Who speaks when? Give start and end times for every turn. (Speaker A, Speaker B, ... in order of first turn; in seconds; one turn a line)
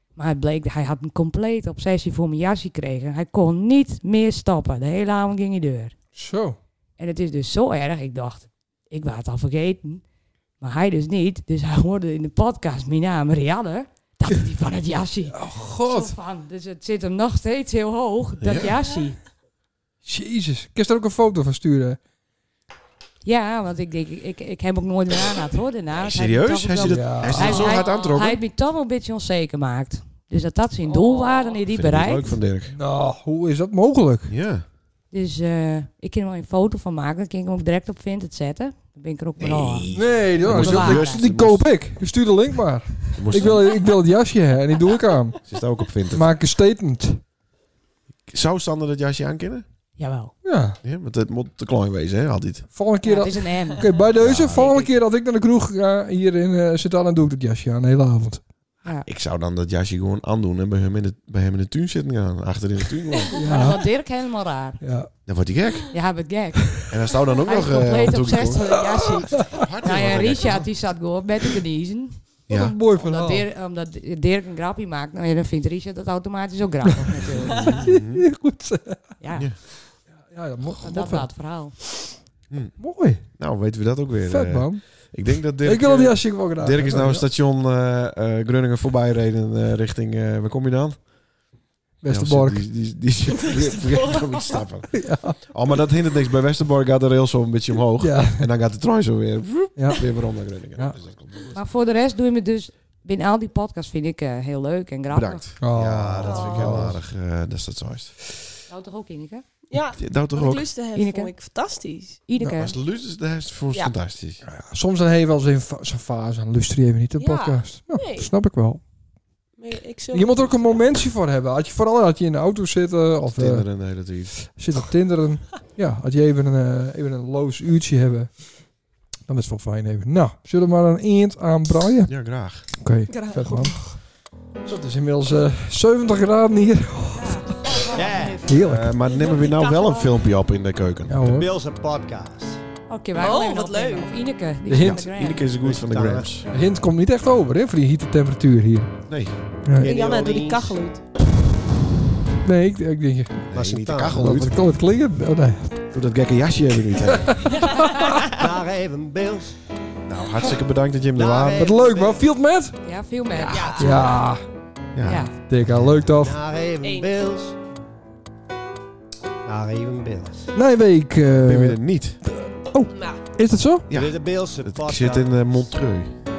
Speaker A: 0.1-6.0
Speaker B: 6.2-6.6
Speaker A: 7.0-10.1
Speaker A: 10.6-19.2
Speaker B: 15.3-16.1
Speaker C: 18.4-18.8
Speaker B: 20.0-22.0
Speaker A: 23.2-32.4
Speaker C: 26.0-28.4
Speaker B: 26.9-27.7
Speaker D: 27.4-28.1
Speaker D: 30.9-31.6
Speaker C: 31.7-32.8
Speaker B: 32.7-34.4
Speaker C: 34.3-34.6
Speaker A: 35.1-39.9
Speaker C: 39.4-41.7
Speaker B: 39.9-45.5
Speaker A: 40.4-41.3
Speaker C: 43.1-43.7
Speaker C: 45.5-46.3
Speaker B: 46.1-47.2
Speaker C: 48.3-49.6
Speaker A: 50.0-50.4
Speaker B: 50.4-50.8
Speaker C: 50.8-52.7
Speaker B: 52.7-58.4
Speaker A: 53.0-55.0
Speaker C: 54.1-54.7
Speaker C: 59.0-63.4
Speaker B: 63.4-63.9
Speaker A: 63.4-64.8
Speaker B: 64.8-65.1
Speaker C: 65.3-65.9
Speaker A: 65.9-72.4
Speaker C: 66.9-70.7
Speaker B: 68.7-69.5
Speaker C: 72.5-72.8
Speaker B: 72.5-73.5
Speaker A: 73.0-77.9
Speaker C: 77.2-78.3
Speaker D: 77.4-77.8
Speaker B: 77.7-79.2
Speaker A: 79.2-79.6
Speaker C: 79.3-79.6
Speaker B: 80.1-81.9
Speaker A: 80.8-81.8
Speaker C: 82.5-91.1
Speaker B: 82.8-83.3
Speaker B: 84.2-87.3
Speaker B: 92.0-92.7
Speaker C: 92.1-101.6
Speaker D: 93.3-94.6
Speaker B: 94.9-95.4
Speaker B: 98.0-98.5
Speaker B: 99.8-100.1
Speaker A: 101.5-105.5
Speaker C: 105.1-108.5
Speaker B: 105.6-107.0
Speaker D: 106.2-106.9
Speaker A: 108.7-109.4
Speaker D: 109.7-112.2
Speaker C: 110.0-110.7
Speaker A: 110.9-111.3
Speaker A: 112.3-112.8
Speaker C: 112.6-114.4
Speaker B: 114.4-118.8
Speaker D: 117.2-118.3
Speaker D: 119.6-120.8
Speaker B: 120.1-128.7
Speaker C: 123.3-124.4
Speaker B: 129.3-134.0
Speaker C: 132.1-132.7
Speaker D: 133.1-134.0
Speaker B: 134.7-137.8
Speaker A: 137.2-138.4
Speaker E: 137.9-138.6
Speaker B: 138.4-138.9
Speaker C: 138.6-141.2
Speaker D: 139.0-140.1
Speaker B: 141.1-141.5
Speaker E: 141.2-142.6
Speaker A: 142.9-145.5
Speaker D: 143.2-144.2
Speaker B: 144.7-145.0
Speaker C: 144.8-146.5
Speaker E: 145.4-146.5
Speaker B: 146.5-149.0
Speaker C: 149.1-149.3
Speaker B: 149.6-149.9
Speaker E: 149.8-150.8
Speaker D: 149.8-151.0
Speaker B: 152.4-153.5
Speaker C: 153.5-154.6
Speaker E: 153.5-154.3
Speaker B: 154.0-155.9
Speaker C: 155.9-157.4
Speaker B: 157.1-158.1
Speaker A: 157.6-158.0
Speaker E: 158.2-159.6
Speaker C: 160.1-161.7
Speaker E: 161.1-162.3
Speaker B: 161.5-162.8
Speaker A: 162.8-164.0
Speaker D: 163.5-164.1
Speaker B: 163.8-164.4
Speaker C: 164.9-166.1
Speaker A: 165.0-165.4
Speaker B: 165.5-166.4
Speaker E: 166.2-167.6
Speaker D: 166.8-167.2
Speaker E: 169.5-170.6
Speaker B: 170.5-173.9
Speaker C: 171.4-172.2
Speaker D: 172.9-173.2
Speaker C: 173.9-176.2
Speaker E: 173.9-175.4